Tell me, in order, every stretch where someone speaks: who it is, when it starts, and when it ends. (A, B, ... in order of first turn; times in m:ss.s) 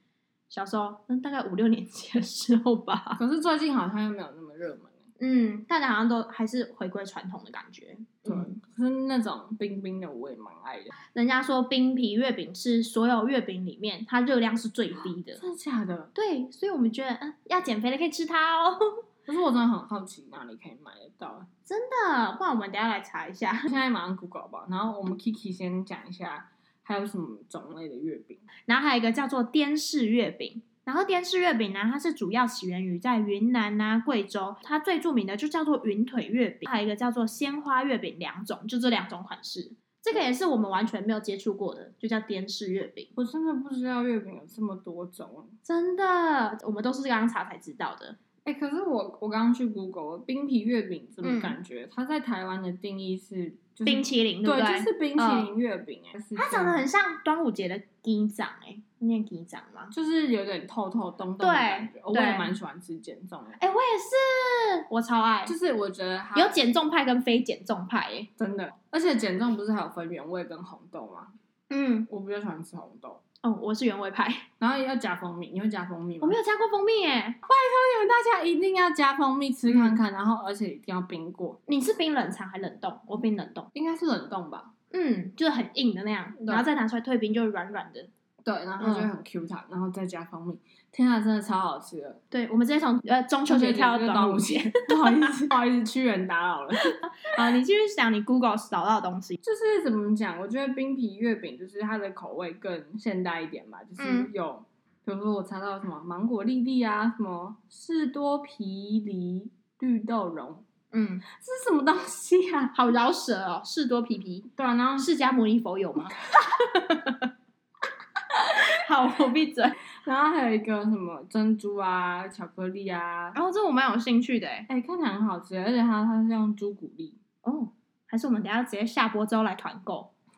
0:00.5-0:03.2 A
0:03.2-0:05.0 B
0:05.2-0:08.6 A
0:08.2-0:10.9 B
0:11.1-0:15.4 A
0:15.4-0:16.1 B
0:16.1-0:18.8 A
0:19.3-0:21.5 B
0:21.7-0:23.7 A
0:23.6-0:28.4 B
0:28.7-0:43.1 A
0:43.2-0:45.5 B
0:45.6-0:48.2 A
0:48.4-0:56.8 B
0:51.2-0:51.6 A
0:53.8-0:55.5 A
0:56.4-0:59.9 A
0:59.9-1:03.6 B
1:01.4-1:02.5 A
1:03.6-1:05.5 A
1:05.4-1:06.6 B
1:06.3-1:08.3 A
1:08.4-1:11.3 B
1:11.7-1:12.1 A
1:12.1-1:13.2 B
1:13.4-1:14.5 A
1:14.6-1:16.4 B
1:16.2-1:17.4 A
1:17.4-1:21.6 B
1:19.7-1:20.0 A
1:21.7-1:23.7 A
1:23.7-1:24.7 B
1:24.9-1:28.1 A
1:26.4-1:26.6 B
1:28.4-1:32.2 B
1:28.8-1:29.1 A
1:32.3-1:35.3 A
1:33.5-1:37.6 B
1:36.8-1:39.4 A
1:39.4-1:50.6 B
1:44.0-1:44.3 A
1:50.9-1:51.2 A
1:51.3-1:52.7 B
1:52.7-1:57.2 A
1:54.5-1:55.1 B
1:58.5-1:59.8 A
2:00.0-2:03.4 B
2:03.3-2:04.7 A
2:04.7-2:07.2 B
2:07.4-2:10.1 A